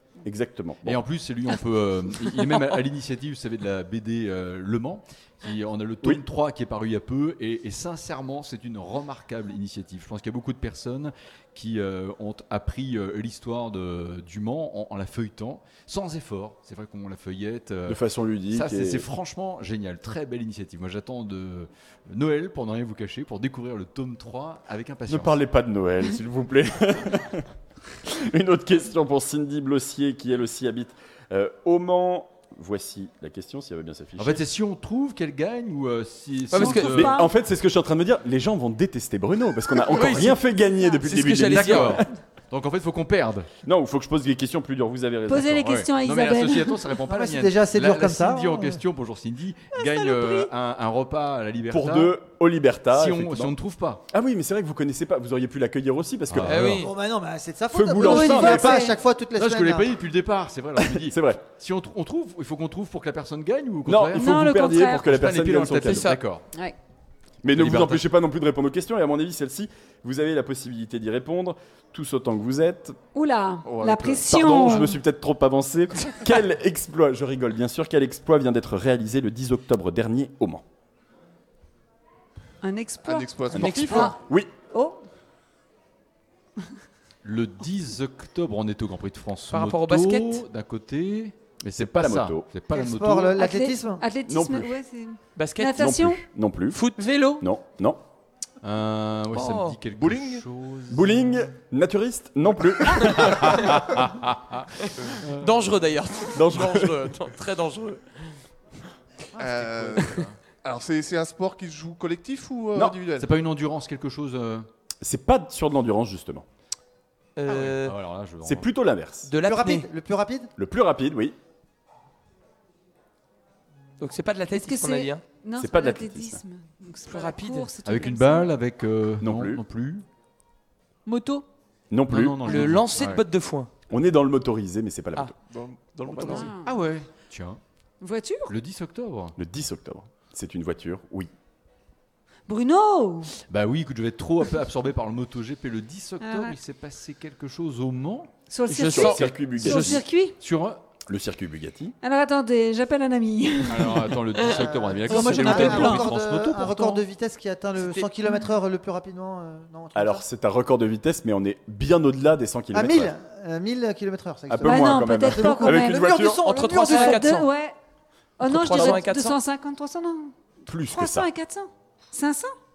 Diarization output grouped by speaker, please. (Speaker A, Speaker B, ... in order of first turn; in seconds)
Speaker A: 0.2-1.0, 17.9-19.1, 25.1-27.5, 28.0-34.4, 36.9-42.0, 43.6-45.8, 51.7-53.5, 54.1-56.8, 57.7-58.9, 60.8-61.4, 63.9-66.1, 67.4-73.0, 74.2-80.6, 83.6-84.5, 91.8-92.5, 94.3-94.8, 95.8-96.8, 97.4-98.0, 100.9-103.8, 106.3-107.0, 115.0-116.5, 118.5-119.3, 120.6-121.4, 125.6-126.4, 129.2-129.6, 131.9-132.8, 133.9-135.3, 139.4-141.3, 148.8-150.0, 151.1-151.9, 159.9-163.1, 164.5-166.4, 170.7-171.3
Speaker B: 0.8-25.4, 34.2-37.1, 41.5-43.5, 45.6-52.2, 52.9-54.0, 56.3-56.9, 59.4-66.4, 67.5-68.1, 87.2-93.4, 98.6-101.4, 103.2-105.5, 109.3-110.4, 113.2-114.7, 117.5-118.7, 127.8-130.1, 132.1-133.2, 136.1-137.6, 138.5-139.4, 143.5-148.3, 149.6-150.8, 153.7-156.9
Speaker C: 36.5-37.2, 39.9-40.4, 41.0-42.0, 56.5-56.9, 65.8-66.2, 83.6-84.1, 89.5-90.4, 95.4-96.0, 96.7-97.4, 99.3-99.8, 103.0-103.8, 104.8-108.4, 117.4-118.0, 119.3-119.9, 124.0-125.2, 127.1-127.7, 132.5-133.7, 148.7-149.3, 154.4-154.7, 157.8-158.1, 166.4-167.5, 168.4-169.4
Speaker D: 36.5-37.3, 45.3-46.9, 58.0-59.0, 64.2-65.1, 73.1-75.0, 82.6-84.2, 84.7-85.0, 93.4-96.2, 124.5-128.5, 136.3-136.7, 138.0-138.5, 142.5-143.3, 146.2-146.6, 148.5-150.4, 152.0-154.3, 164.6-166.1, 166.8-167.8, 168.4-170.3, 170.9-172.5
Speaker E: 47.1-48.8, 56.8-59.9, 92.7-94.0, 119.4-120.5, 155.1-160.2, 162.7-167.3, 168.7-169.0
Speaker F: 49.8-50.5, 97.0-97.4, 131.1-131.4, 155.1-156.1
Speaker G: 73.7-74.3, 83.0-84.1, 100.0-100.4, 109.4-113.3, 135.5-136.5